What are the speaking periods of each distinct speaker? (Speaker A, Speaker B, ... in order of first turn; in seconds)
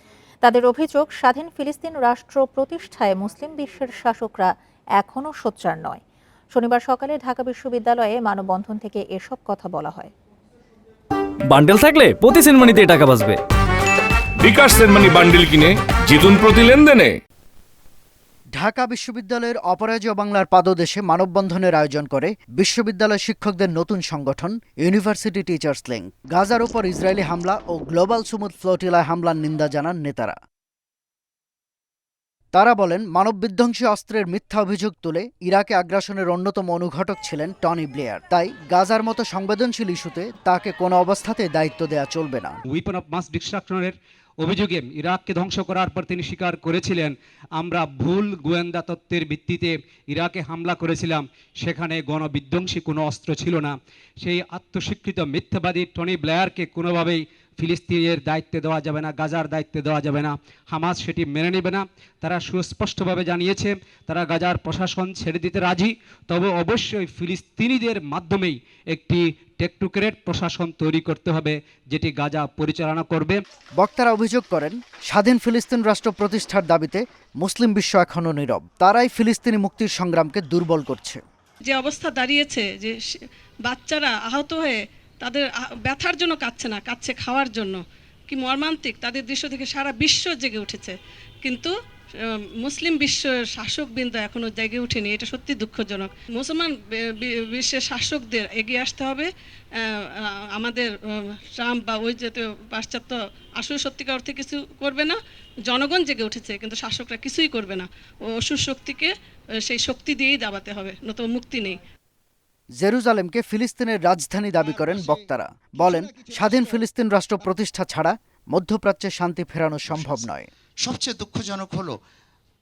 Speaker A: 0.4-6.0, 6.5-10.1
Speaker B: 11.5-13.4
Speaker C: 14.4-17.1
Speaker D: 18.6-30.4, 32.5-42.6, 73.8-81.2, 112.8-120.5
Speaker E: 42.7-73.4
Speaker F: 81.7-105.2, 105.7-109.1, 109.7-111.8
Speaker G: 116.3-116.6, 119.9-120.3, 120.8-122.0